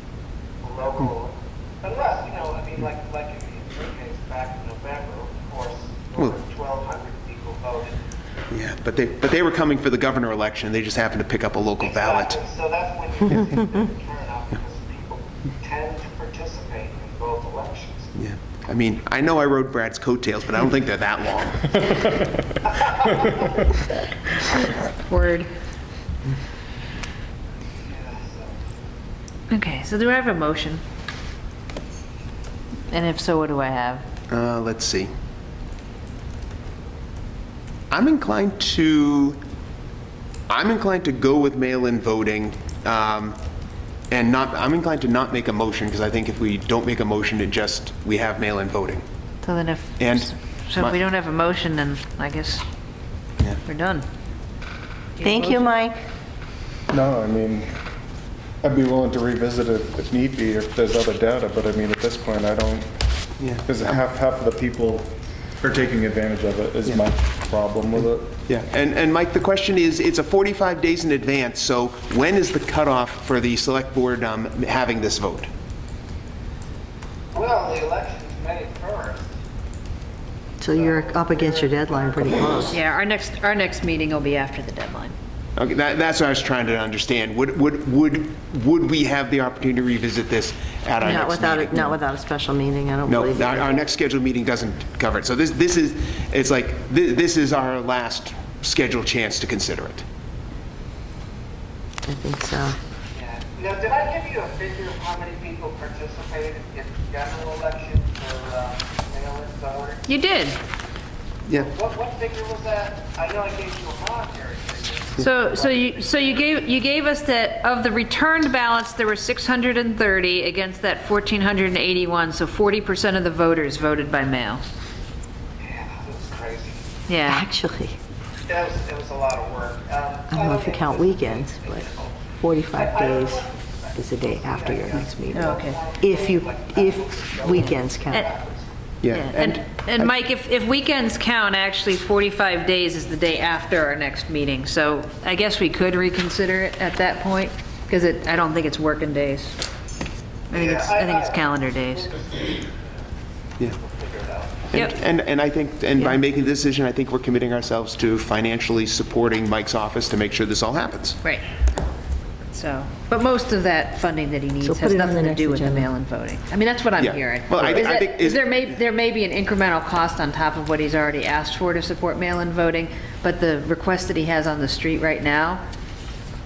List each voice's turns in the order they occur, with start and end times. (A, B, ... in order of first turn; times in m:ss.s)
0:00.6-0:08.0 A
0:08.5-0:12.4 B
0:11.8-0:18.1 A
0:18.2-0:22.0 B
0:22.0-0:23.4 C
0:22.7-0:23.3 A
0:24.6-0:25.5 D
0:27.9-0:28.6 A
0:29.5-0:30.8 D
0:32.9-0:34.0 D
0:34.3-0:35.1 B
0:37.9-0:39.4 B
0:40.5-0:43.4 B
0:44.1-0:49.0 B
0:49.4-0:52.6 D
0:50.0-0:51.0 B
0:53.6-0:54.0 D
0:55.2-0:55.7 D
0:55.2-0:56.0 E
0:56.9-0:57.7 C
0:58.6-1:02.9 C
1:03.4-1:03.9 B
1:03.6-1:05.1 C
1:05.6-1:08.4 C
1:08.5-1:15.5 B
1:17.3-1:19.3 A
1:20.6-1:22.8 E
1:20.8-1:21.7 A
1:22.7-1:25.1 D
1:25.6-1:32.0 B
1:31.0-1:33.9 E
1:33.1-1:40.0 B
1:42.0-1:42.8 E
1:43.1-1:50.0 A
1:50.0-1:50.6 D
1:51.5-1:56.2 A
1:55.2-2:04.6 D
2:05.6-2:06.8 A
2:07.1-2:07.4 D
2:07.2-2:08.0 E
2:08.4-2:18.7 A
2:10.3-2:11.8 E
2:12.4-2:18.3 E
2:15.3-2:15.8 D
2:19.0-2:19.6 B
2:19.1-2:29.6 D
2:30.5-2:32.1 D
2:30.5-2:32.7 A
2:33.6-2:34.7 A
2:34.7-2:41.2 B
2:42.5-2:55.6 D
2:44.6-2:45.9 E
2:47.0-2:48.7 B